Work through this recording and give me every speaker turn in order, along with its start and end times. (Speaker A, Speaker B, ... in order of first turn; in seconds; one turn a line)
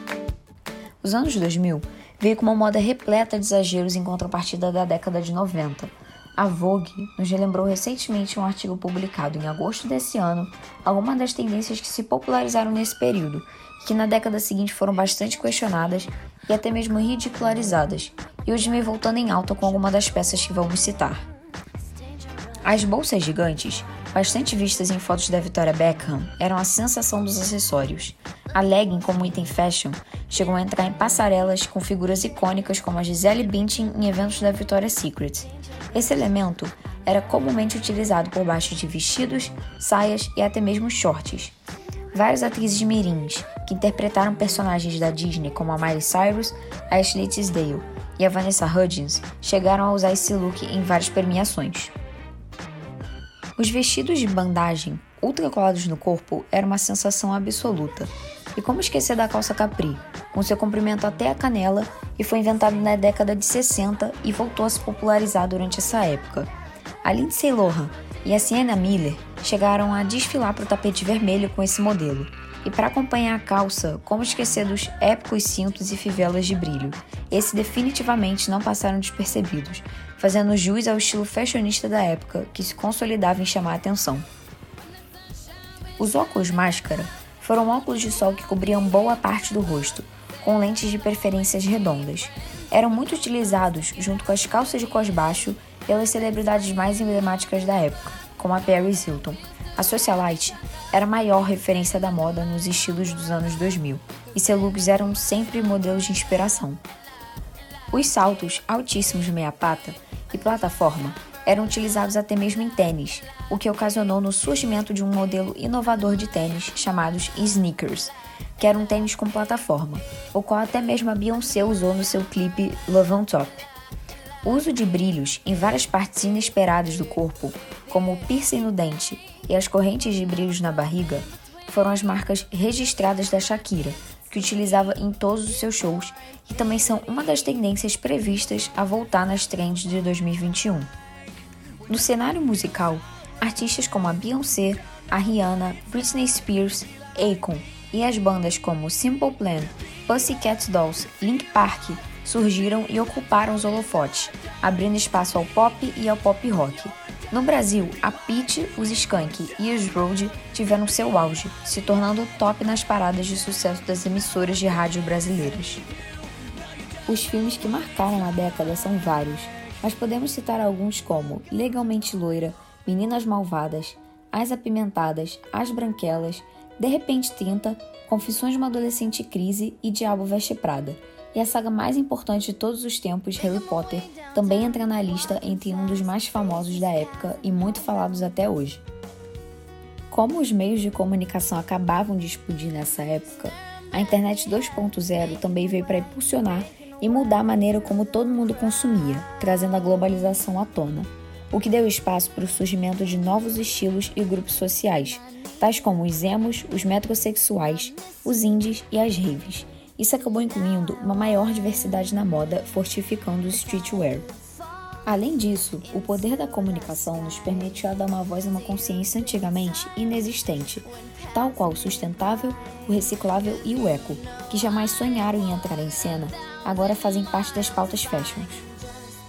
Speaker A: 1.0-21.3
Speaker A: 22.6-41.5
Speaker A: 42.1-51.9
Speaker A: 53.6-66.5
Speaker A: 67.0-84.2
Speaker A: 86.0-106.8
Speaker A: 107.9-123.7
Speaker A: 124.4-140.9
Speaker A: 141.9-165.8
Speaker A: 167.1-188.8
Speaker A: 190.1-214.3
Speaker A: 215.1-228.7